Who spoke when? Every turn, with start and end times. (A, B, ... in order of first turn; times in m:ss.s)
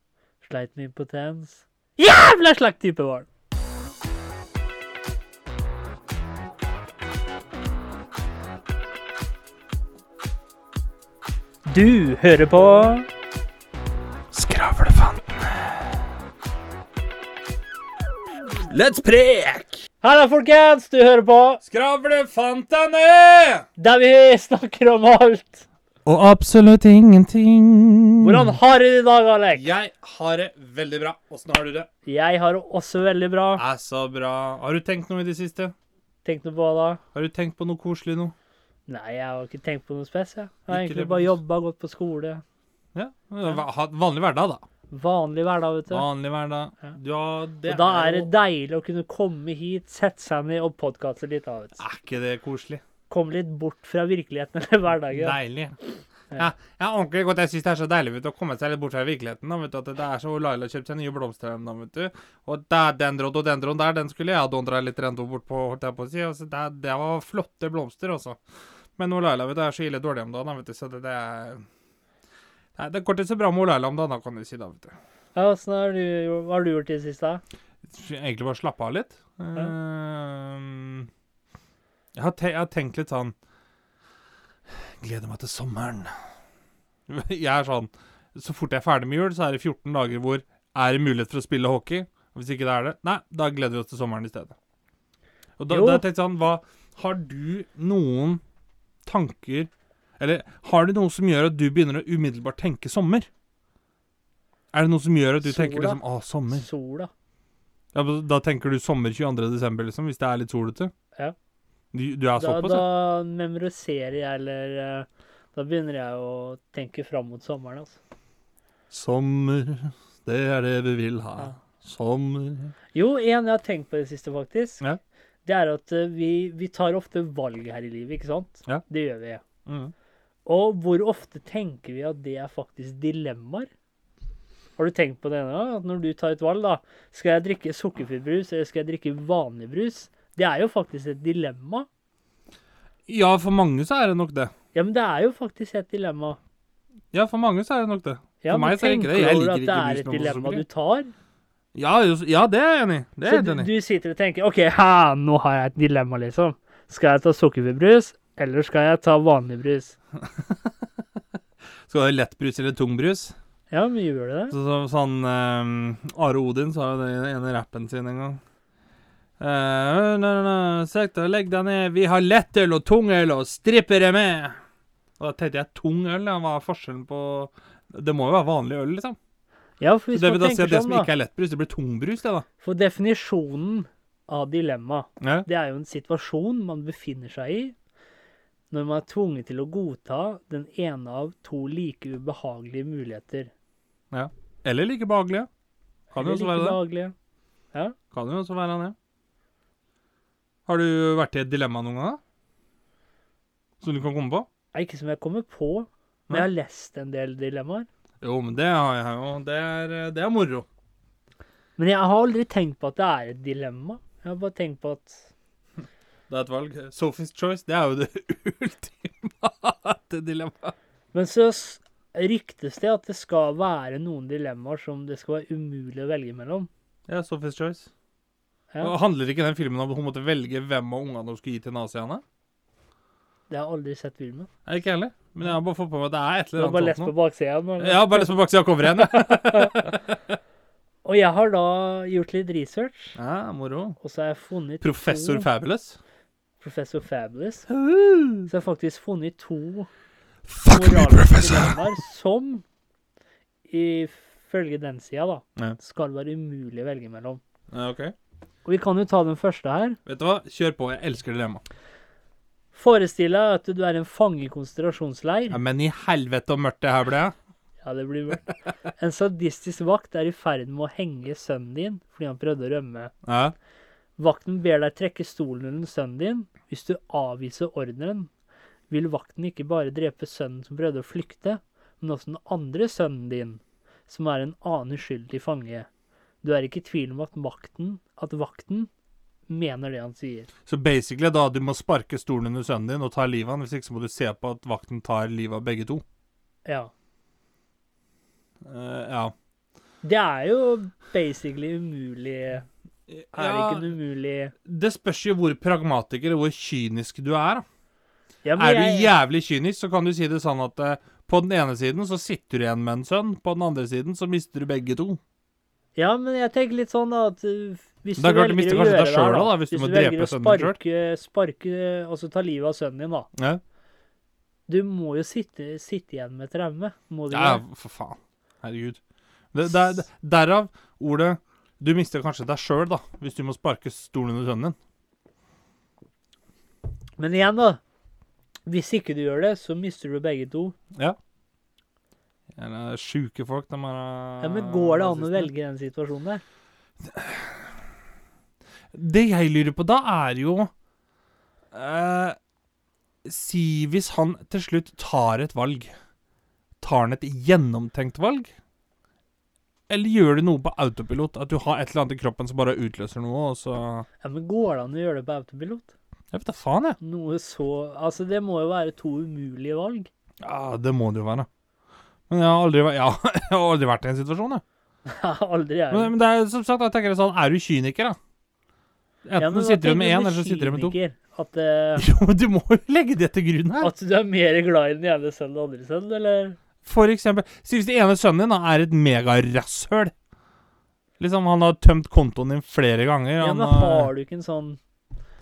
0:00.4-0:03.3 A
0:11.7-0:13.1 A
0:14.3-0:16.0 B
0:18.6-0:19.8 B
0:20.0-0:21.6 A
0:21.6-0:23.7 B
0:23.8-0:25.7 A
0:26.0-0:28.6 B
0:28.2-0:29.7 A
0:29.6-0:31.9 B
0:32.1-0:33.6 A
0:33.6-0:35.7 B
0:36.2-0:37.0 A
0:37.1-0:38.3 B
0:38.9-0:42.4 A
0:40.7-0:41.3 B
0:42.9-0:44.6 B
0:44.9-0:46.1 A
0:45.9-0:48.3 B
0:47.7-0:51.8 A
0:51.8-0:52.8 B
0:53.1-0:55.4 A
0:55.1-0:55.8 B
0:56.3-1:08.4 B
1:09.0-1:11.6 B
1:12.8-1:15.0 B
1:15.4-1:17.4 A
1:17.8-1:21.1 B
1:22.2-1:23.4 B
1:24.7-1:26.2 B
1:27.1-1:34.6 B
1:35.6-1:38.4 B
1:35.7-1:36.0 A
1:39.0-1:43.3 B
1:44.7-1:46.7 B
1:45.4-1:47.1 A
1:47.9-1:50.9 B
1:51.9-1:52.9 B
1:52.4-1:58.0 A
1:58.9-2:02.7 B
2:02.9-2:04.8 A
2:05.4-2:09.4 A
2:09.7-2:09.9 B
2:10.5-2:13.7 A
2:14.8-2:21.9 A
2:23.1-2:24.5 B
2:24.7-2:26.4 A
2:27.1-2:30.6 B
2:28.4-2:31.1 A
2:31.8-2:33.7 B
2:33.2-2:40.0 A
2:40.2-2:40.9 B
2:41.8-2:43.3 B
2:43.7-2:44.6 A
2:44.5-2:48.4 B
2:49.4-2:54.6 B
2:55.2-2:59.2 B
2:59.8-3:01.1 A
3:00.1-3:02.4 B
3:02.6-3:07.8 A
3:05.2-3:05.5 B
3:08.7-3:13.5 A
3:14.1-3:15.5 B
3:16.1-3:16.8 B
3:16.1-3:17.1 A
3:18.1-3:19.0 B
3:20.7-3:22.2 B
3:23.8-3:24.5 B
3:24.7-3:27.9 A
3:28.2-3:30.7 B
3:31.8-3:35.3 A
3:36.3-3:40.8 B
3:41.1-3:46.7 A
3:47.1-3:47.9 B
3:48.8-3:52.2 B
3:53.5-3:54.5 A
3:54.7-3:57.1 B
3:56.6-3:58.3 A
3:57.8-4:00.4 B
3:58.9-4:00.0 A
4:01.0-4:03.2 A
4:03.2-4:04.0 B
4:04.0-4:05.5 A
4:04.8-4:06.0 B
4:06.6-4:07.7 A
4:07.7-4:08.5 B
4:08.5-4:09.9 A
4:10.5-4:11.8 B
4:10.7-4:12.6 A
4:13.7-4:17.4 A
4:17.7-4:18.1 B
4:18.6-4:20.0 A
4:20.1-4:21.6 B
4:22.7-4:25.6 A
4:25.5-4:27.3 B
4:27.8-4:33.1 A
4:33.2-4:33.6 B
4:34.2-4:38.3 A
4:38.9-4:45.9 A
4:46.4-4:48.9 A
4:49.5-4:50.5 A
4:50.7-4:56.0 B
4:56.7-4:56.9 A
4:58.6-4:59.3 B
5:00.0-5:02.7 A
5:03.1-5:03.9 B
5:03.3-5:04.5 A
5:04.6-5:07.6 B
5:08.4-5:09.1 A
5:08.6-5:15.2 B
5:16.0-5:23.3 A
5:18.2-5:20.8 B
5:23.4-5:23.6 B
5:24.7-5:27.6 A
5:27.3-5:29.0 B
5:29.5-5:34.8 B
5:37.2-5:37.8 A
5:38.7-5:40.8 A
5:42.6-5:45.5 B
5:44.4-5:46.4 A
5:47.0-5:47.8 B
5:48.9-5:50.7 B
5:51.7-5:52.4 B
5:53.2-5:55.9 B
5:56.8-5:58.5 B
5:59.9-6:04.1 B
6:04.2-6:05.9 A
6:06.3-6:07.0 B
6:07.0-6:10.1 A
6:10.4-6:11.5 B
6:12.3-6:14.6 B
6:15.1-6:16.1 A
6:15.9-6:18.2 B
6:19.3-6:21.0 B
6:19.4-6:22.0 A
6:22.0-6:23.9 B
6:23.8-6:26.6 A
6:26.8-6:30.1 B
6:31.2-6:34.1 B
6:33.4-6:34.8 A